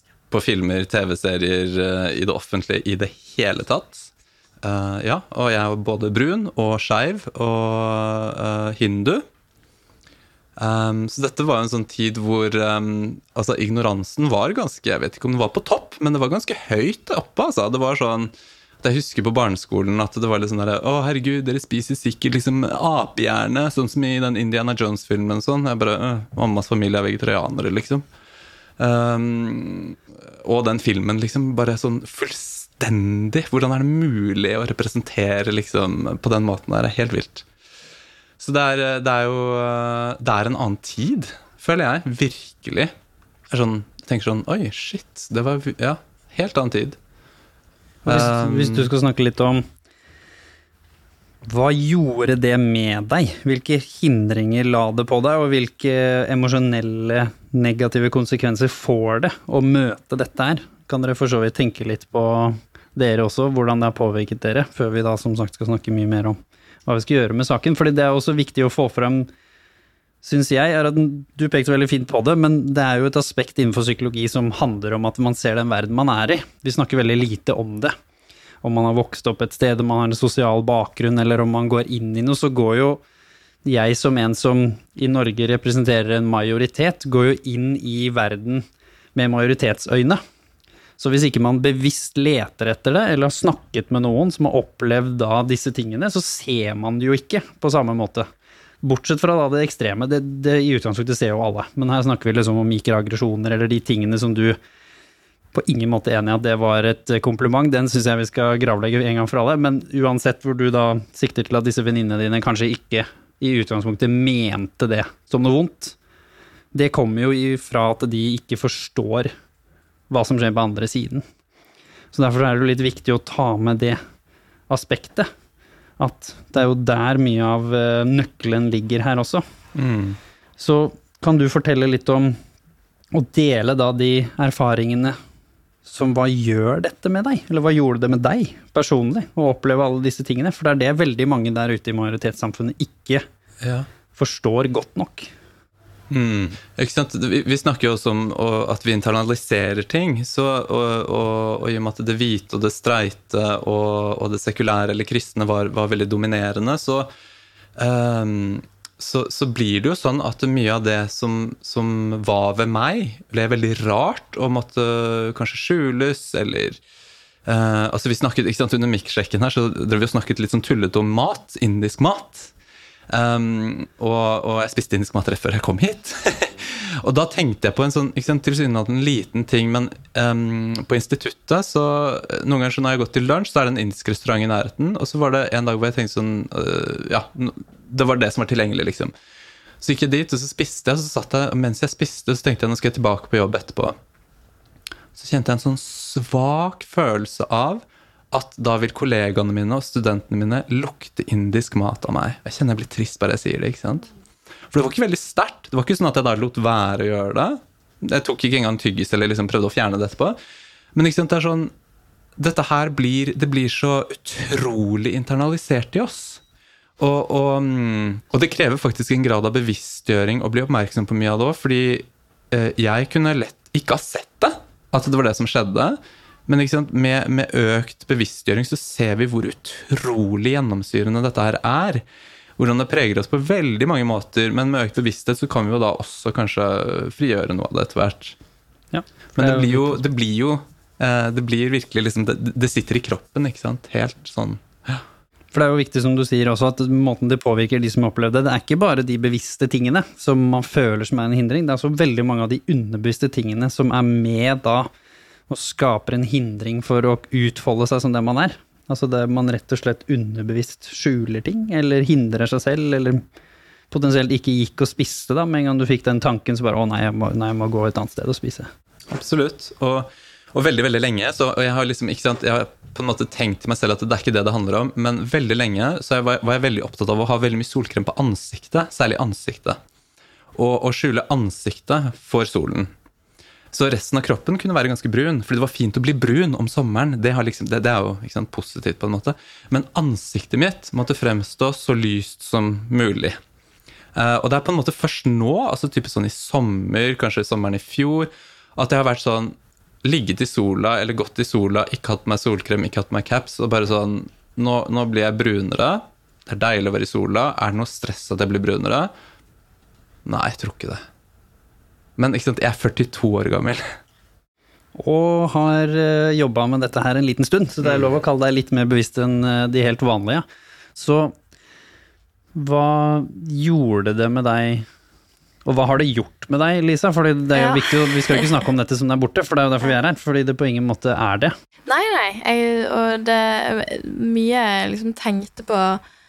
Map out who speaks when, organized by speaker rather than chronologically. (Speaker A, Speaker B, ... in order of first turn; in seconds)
Speaker A: 0.3-4.1, 4.6-9.2, 10.6-28.0, 28.8-37.5, 38.4-42.9, 43.5-47.0, 48.0-48.9, 129.8-130.2, 143.6-143.9, 146.1-157.1, 157.8-166.8, 167.5-172.5, 173.1-189.1, 189.8-193.9, 195.2-204.1, 204.7-210.4, 210.9-211.7, 212.4-216.4, 217.0-232.0, 232.6-238.4, 239.4-245.0, 269.1-279.8, 280.6-282.9, 283.7-293.4, 294.1-309.1, 310.3-311.0, 312.2-313.8
Speaker B: 48.1-49.6, 51.5-69.3, 70.2-78.0, 78.6-83.0, 83.7-90.2, 91.0-98.3, 98.8-104.6, 105.5-116.0, 116.7-119.3, 120.1-121.2, 122.1-124.0, 124.7-125.3, 126.0-129.4, 130.6-132.4, 133.1-135.2, 135.9-143.2, 144.2-145.3, 238.9-240.0, 245.5-254.9, 255.5-263.2, 263.9-268.7, 315.0-320.4, 321.0-321.4, 322.6-324.9, 325.6-331.5
Speaker C: 327.6-327.9, 331.9-336.0